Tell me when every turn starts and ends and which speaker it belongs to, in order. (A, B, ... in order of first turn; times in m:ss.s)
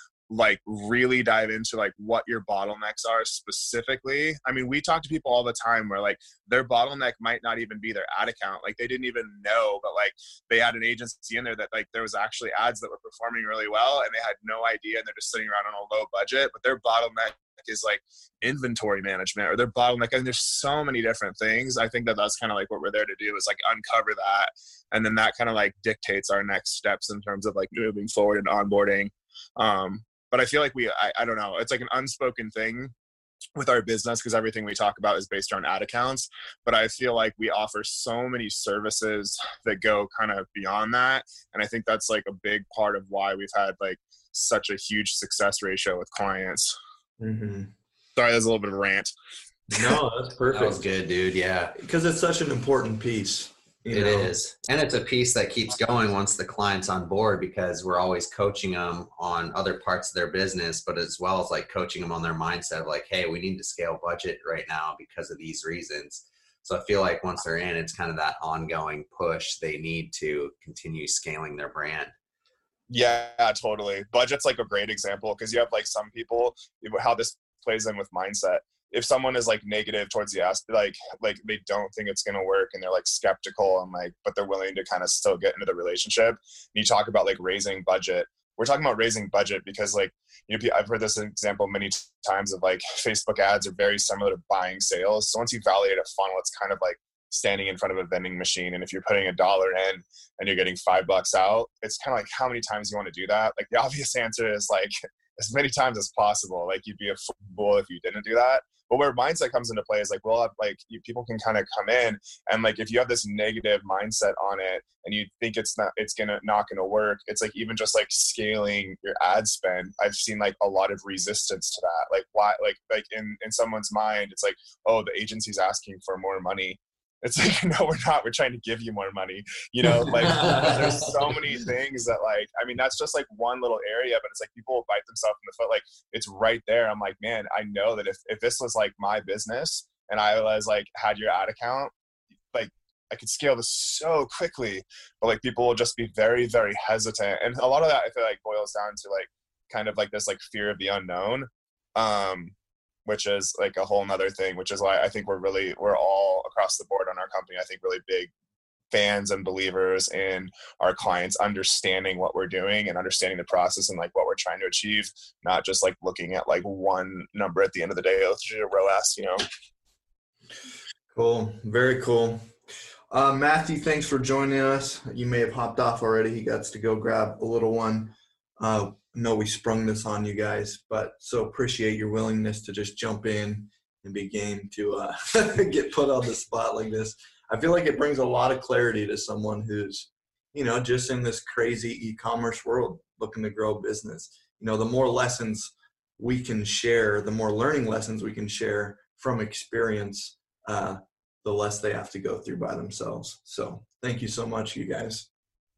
0:00.3-0:32.9 A
0:33.6-0:46.7 A
0:47.2-0:47.7 B
0:48.2-0:49.1 A
0:49.7-0:50.8 B
0:50.5-0:51.8 C
0:51.8-0:54.3 B
0:53.9-1:12.1 C
1:12.9-2:21.9 A
2:10.0-2:11.1 C
2:22.5-2:32.5 A
2:33.0-2:38.3 A
2:38.9-2:49.4 A
2:51.1-2:52.5 B
2:53.1-3:25.3 B